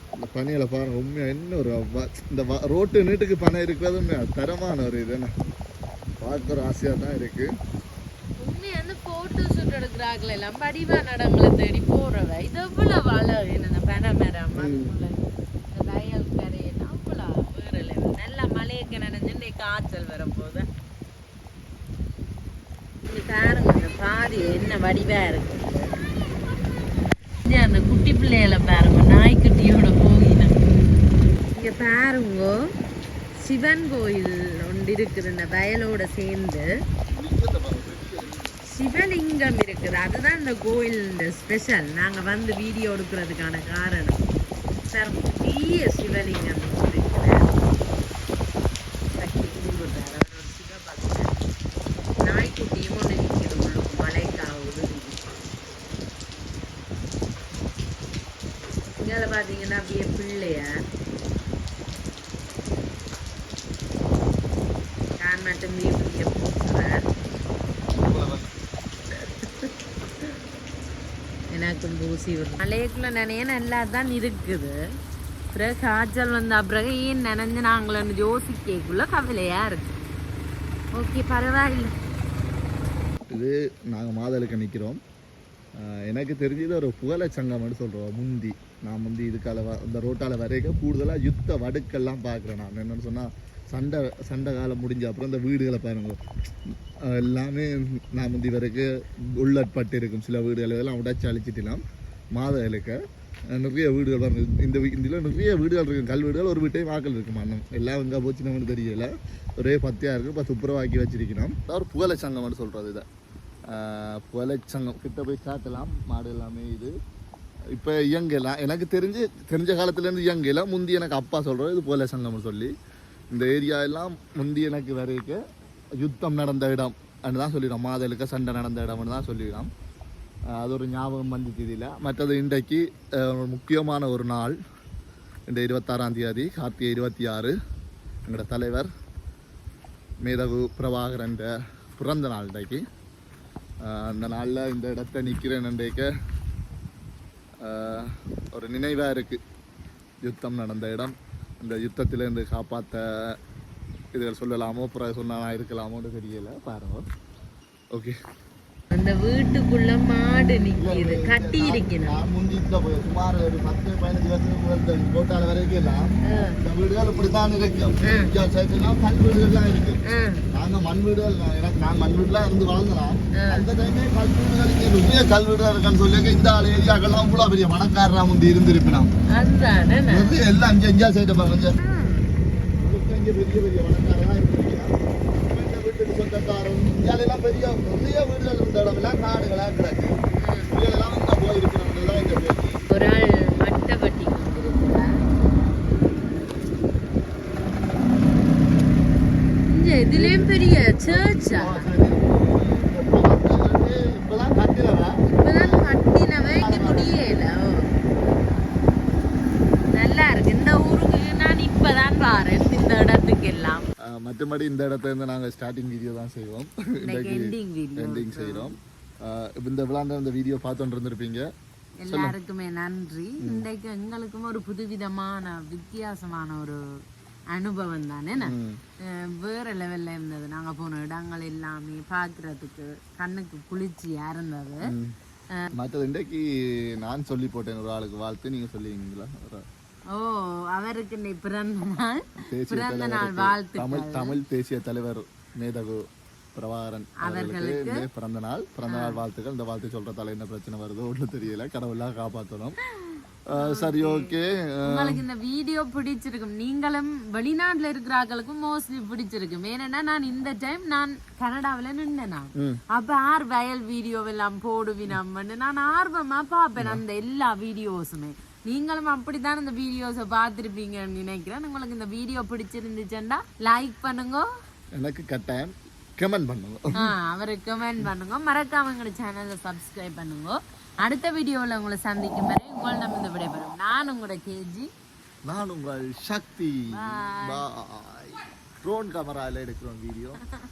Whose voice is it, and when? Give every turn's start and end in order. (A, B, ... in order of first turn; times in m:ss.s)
0:00.2-0:05.3 A
0:06.2-0:07.5 A
0:08.4-0:20.6 B
0:14.6-0:14.9 A
0:23.0-0:25.9 B
0:27.4-0:30.6 B
0:31.5-0:32.5 B
0:33.4-0:36.6 B
0:37.1-0:38.4 A
0:38.7-0:44.2 B
0:44.9-0:47.4 B
0:49.1-0:51.3 B
0:52.2-0:55.4 B
0:58.9-1:00.7 B
1:05.2-1:07.1 B
1:07.9-1:08.5 A
1:09.2-1:09.7 B
1:11.5-1:14.8 B
1:15.5-1:20.0 B
1:21.0-1:21.9 B
1:23.3-1:25.0 A
1:25.8-1:41.8 A
1:42.4-1:43.0 A
1:43.5-1:53.0 A
1:53.7-1:56.9 A
1:57.7-2:02.7 A
2:03.3-2:05.4 A
2:06.0-2:09.7 A
2:10.6-2:14.5 A
2:15.5-2:17.5 A
2:18.3-2:18.9 A
2:20.2-2:22.8 A
2:23.8-2:26.1 A
2:27.6-2:29.4 A
2:30.2-2:33.4 A
2:34.1-2:37.0 A
2:38.9-2:42.2 B
2:40.8-2:59.1 A
2:46.3-2:46.6 B
2:48.0-2:48.3 B
2:50.0-2:50.4 B
2:53.3-2:53.6 B
2:59.3-3:00.4 B
3:00.1-3:01.8 A
3:01.8-3:02.2 B
3:02.8-3:04.9 A
3:05.5-3:10.2 A
3:10.4-3:10.7 B
3:10.7-3:12.8 A
3:12.9-3:15.0 B
3:19.7-3:21.8 B
3:20.2-3:25.9 A
3:25.3-3:27.9 B
3:26.5-3:27.1 A
3:29.9-3:33.8 B
3:34.0-3:41.4 A
3:37.0-3:38.7 B
3:42.0-3:46.8 B
3:42.0-3:42.3 A
3:47.5-3:54.9 B
3:48.4-3:48.8 A
3:54.8-3:55.2 A
3:55.8-3:59.6 A
4:00.1-4:04.4 B
4:02.4-4:12.8 A
4:07.2-4:08.0 B
4:08.9-4:09.2 B
4:13.0-4:14.3 B
4:13.5-4:15.2 A
4:14.8-4:34.4 B
4:26.8-4:27.0 A
4:35.0-4:37.1 A
4:37.0-4:44.9 B
4:45.5-4:50.4 A
4:46.9-4:47.6 B